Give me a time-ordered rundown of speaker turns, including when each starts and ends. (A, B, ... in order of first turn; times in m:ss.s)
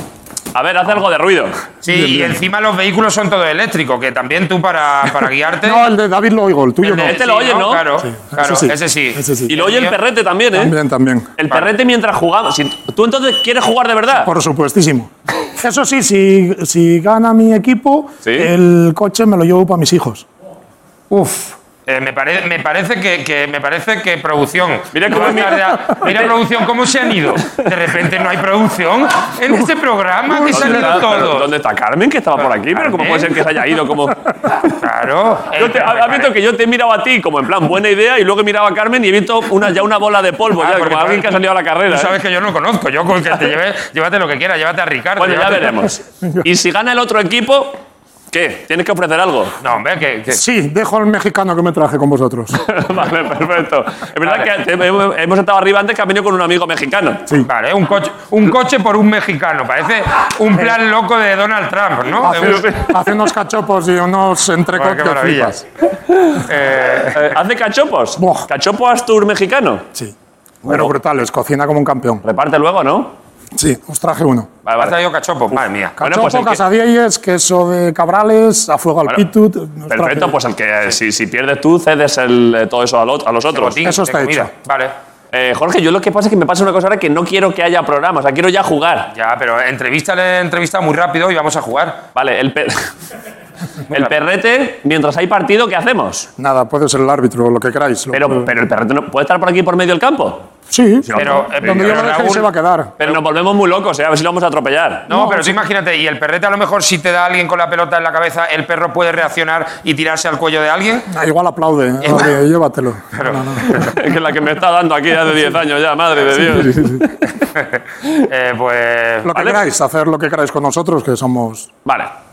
0:00.5-0:01.6 A
0:01.8-0:05.9 B
0:01.9-0:02.4 C
0:05.6-0:07.2 C
0:06.8-0:07.9 A
0:06.9-0:10.0 B
0:08.1-0:09.5 C
0:09.5-0:10.8 A
0:10.5-0:11.3 C
0:11.4-0:14.3 A
0:14.2-0:20.2 C
0:18.2-0:18.5 A
0:21.1-0:31.5 B
0:24.9-0:26.3 A
0:30.3-0:31.1 C
0:30.5-0:34.2 A
0:32.4-0:33.4 B
0:34.6-0:36.3 B
0:35.6-0:42.2 A
0:40.6-0:45.9 B
0:45.2-0:47.8 A
0:48.3-0:49.6 A
0:49.6-0:50.4 B
0:50.3-0:52.6 C
0:52.6-0:57.2 A
0:54.2-0:54.5 B
0:57.5-1:02.8 B
1:02.2-1:05.6 C
1:02.2-1:03.0 A
1:04.8-1:05.6 B
1:06.3-1:07.4 B
1:07.2-1:09.8 A
1:08.2-1:08.5 C
1:10.6-1:12.2 C
1:12.2-1:13.1 A
1:13.6-1:14.5 C
1:14.6-1:15.0 A
1:14.8-1:16.0 B
1:15.5-1:16.6 A
1:16.0-1:20.4 C
1:19.9-1:23.8 A
1:23.5-1:24.9 B
1:23.8-1:24.5 C
1:25.3-1:29.1 A
1:29.1-1:32.0 B
1:32.2-1:32.9 A
1:33.9-1:36.3 A
1:36.4-1:38.5 C
1:38.1-1:40.5 A
1:40.7-1:42.9 C
1:41.0-1:42.1 A
1:41.1-1:43.2 B
1:43.0-1:45.1 A
1:45.1-1:51.1 B
1:45.1-1:45.6 C
1:51.1-1:53.8 C
1:52.0-1:52.3 B
1:53.2-1:53.9 B
1:53.7-1:57.3 A
1:56.4-1:57.0 C
1:57.6-1:59.3 B
1:59.2-2:01.7 C
1:59.3-1:59.6 A
2:01.8-2:02.1 A